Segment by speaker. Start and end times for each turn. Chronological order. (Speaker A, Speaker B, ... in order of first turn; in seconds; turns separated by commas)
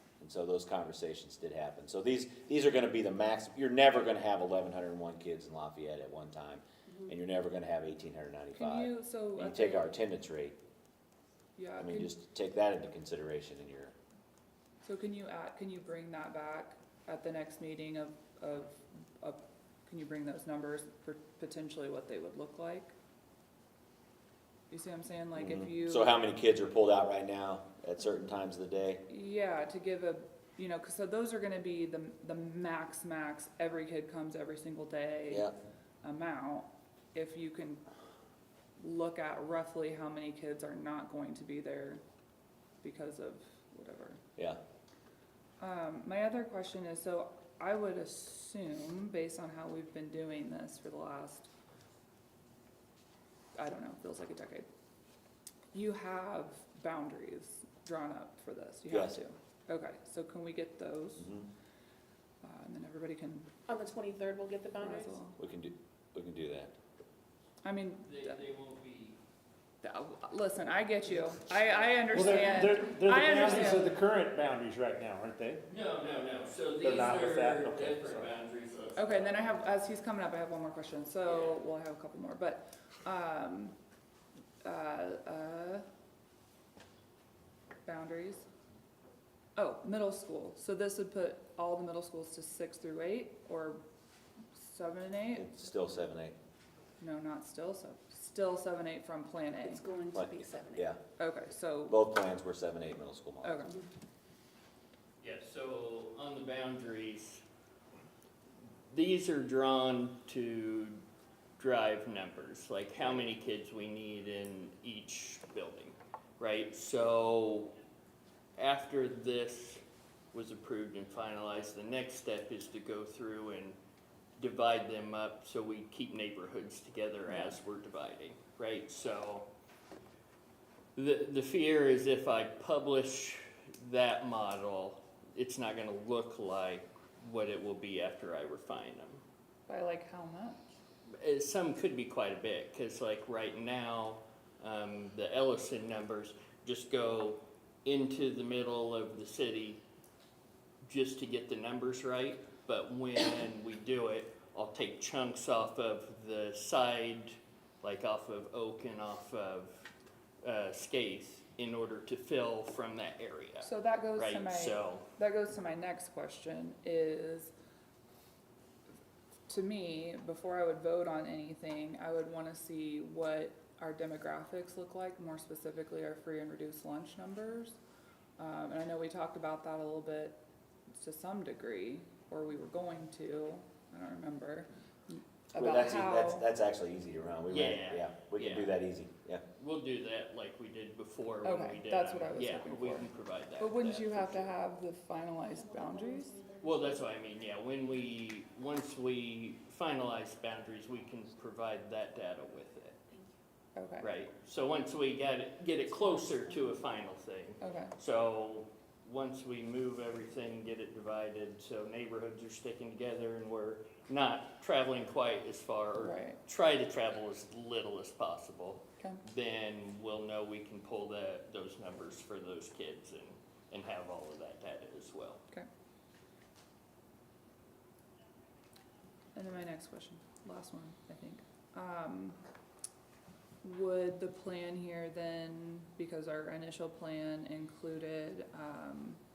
Speaker A: 0.2-10.6, Speaker B: 8.5-10.0, Speaker B: 11.6-12.1, Speaker A: 11.8-13.9, Speaker B: 14.8-22.9, Speaker B: 24.7-26.2, Speaker A: 25.4-29.0, Speaker B: 29.1-35.5, Speaker B: 36.0-37.8, Speaker B: 38.8-42.0, Speaker B: 42.8-44.2, Speaker B: 45.6-51.5, Speaker B: 53.6-54.7, Speaker B: 55.7-61.3, Speaker A: 58.9-59.2, Speaker A: 61.2-61.5, Speaker B: 62.4-63.5, Speaker C: 63.7-65.2, Speaker B: 64.8-65.4, Speaker A: 65.4-66.8, Speaker B: 67.6-68.4, Speaker D: 68.0-69.2, Speaker B: 69.8-74.0, Speaker D: 71.7-72.0, Speaker E: 72.1-75.6, Speaker D: 75.7-79.6, Speaker E: 76.8-78.3, Speaker B: 79.0-83.8, Speaker D: 81.2-81.6, Speaker B: 84.6-85.8, Speaker B: 87.8-88.5, Speaker B: 89.6-93.8, Speaker B: 94.6-95.5, Speaker A: 95.3-96.4, Speaker B: 97.0-99.8, Speaker C: 99.6-100.9, Speaker A: 100.1-101.0, Speaker B: 101.2-102.0, Speaker A: 101.9-103.7, Speaker B: 103.4-103.8, Speaker D: 105.2-107.4, Speaker D: 108.9-111.0, Speaker D: 111.6-117.8, Speaker D: 118.6-119.8, Speaker D: 120.3-123.8, Speaker D: 124.4-129.5, Speaker D: 131.0-139.2, Speaker B: 139.7-140.6, Speaker D: 141.2-149.8, Speaker D: 150.8-159.9, Speaker D: 160.4-165.1, Speaker B: 163.6-167.5, Speaker B: 169.5-177.8, Speaker B: 178.4-186.5, Speaker A: 185.6-189.4, Speaker D: 187.5-188.8, Speaker D: 189.6-194.6, Speaker B: 191.4-196.4, Speaker C: 195.5-197.0, Speaker D: 196.6-203.0, Speaker B: 203.8-204.1, Speaker D: 204.0-225.4, Speaker B: 207.6-207.9, Speaker B: 216.0-216.4, Speaker B: 229.3-232.4, Speaker B: 233.6-239.2